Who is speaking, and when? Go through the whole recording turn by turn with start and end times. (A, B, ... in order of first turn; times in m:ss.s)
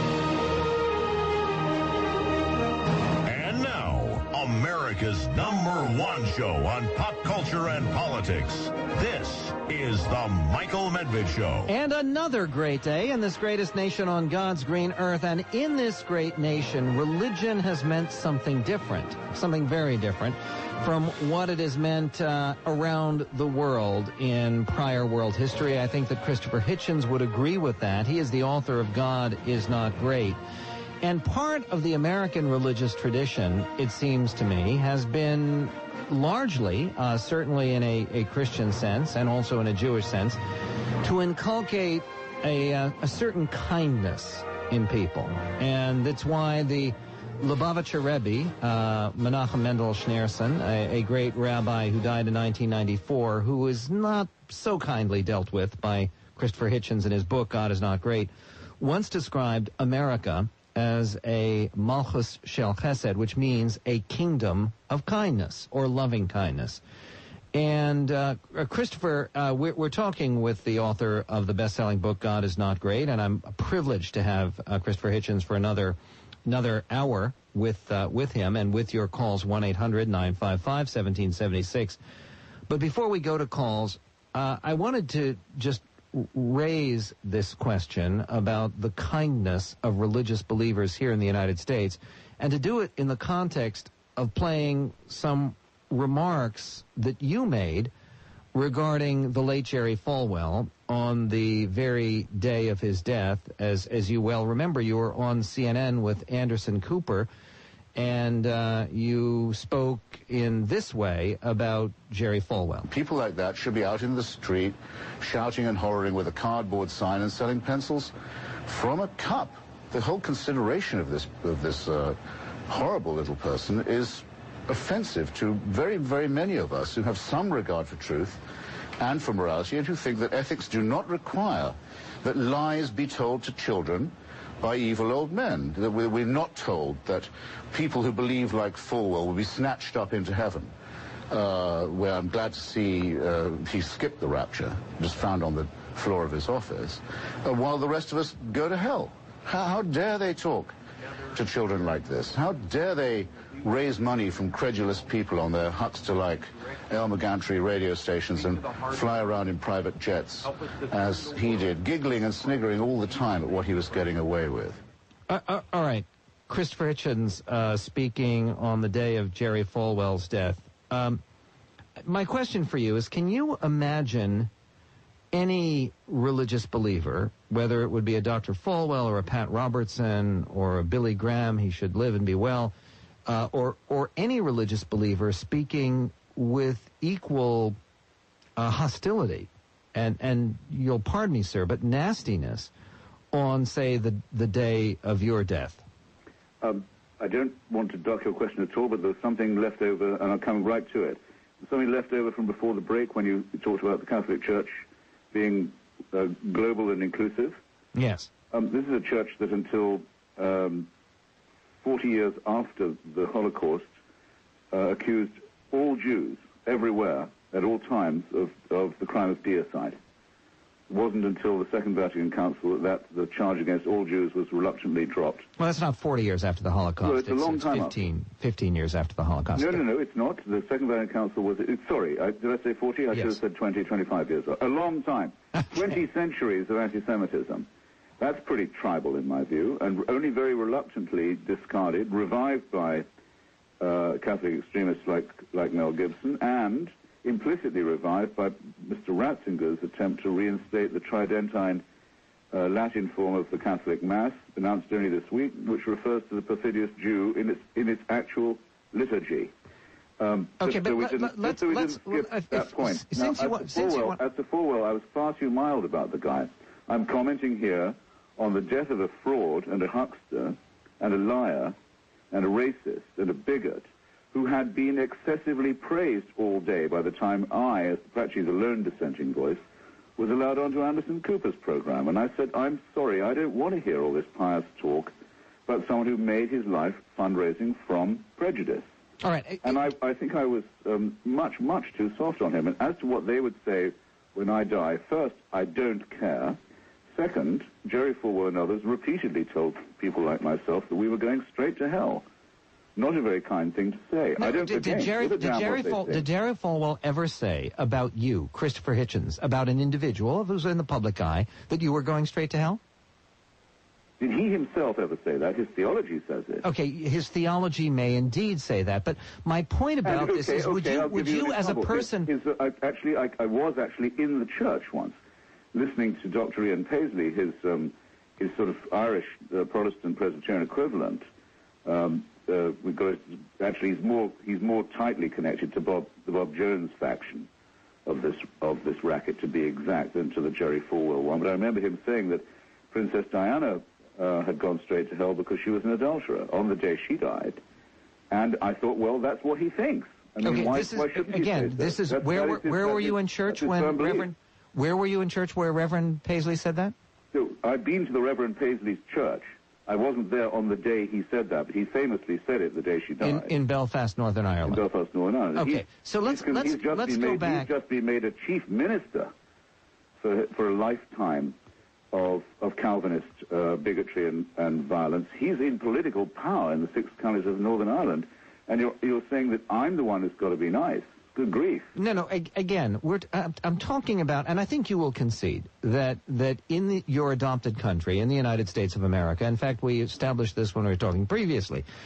0:03.2-0:11.7 A
0:11.6-0:30.4 B
0:31.0-0:40.4 B
0:41.0-1:06.8 B
1:07.5-1:22.0 B
1:22.7-1:37.9 B
1:38.5-1:47.3 B
1:47.9-1:52.9 B
1:52.9-1:58.1 C
1:58.6-2:02.2 C
2:02.7-2:08.4 C
2:09.0-2:20.7 C
2:21.3-2:30.7 C
2:31.3-2:44.8 C
2:45.3-2:51.2 B
2:52.0-2:54.5 B
2:55.3-3:02.7 B
3:03.2-3:07.8 B
3:08.6-3:12.7 B
3:13.3-3:15.8 B
3:16.6-3:27.6 D
3:27.9-3:28.3 B
3:28.5-3:30.9 D
3:31.8-3:33.9 D
3:34.7-3:40.0 D
3:40.9-3:45.4 D
3:45.6-3:49.8 B
3:47.0-3:48.0 D
3:49.6-3:57.7 D
3:58.2-4:03.0 D
4:03.8-4:11.8 D
4:12.5-4:19.5 D
4:20.2-4:31.8 D
4:20.6-4:24.2 B
4:32.3-4:39.6 D
4:40.2-4:45.1 D
4:45.7-4:48.8 D
4:49.2-4:49.8 B
4:49.6-4:56.6 D
4:57.1-5:02.2 D
5:03.0-5:06.2 D
5:04.4-5:12.8 B
5:14.2-5:16.6 D
5:16.6-5:22.3 B
5:20.0-5:25.2 D
5:25.7-5:31.2 D
5:31.8-5:37.5 D
5:38.0-5:47.6 D
5:48.3-5:54.3 D
5:50.4-5:56.9 B
5:57.3-6:03.5 D
6:03.2-6:04.8 B
6:04.6-6:09.3 D
6:05.5-6:07.7 B
6:10.2-6:11.5 D
6:12.1-6:21.9 D
6:22.0-6:31.8 B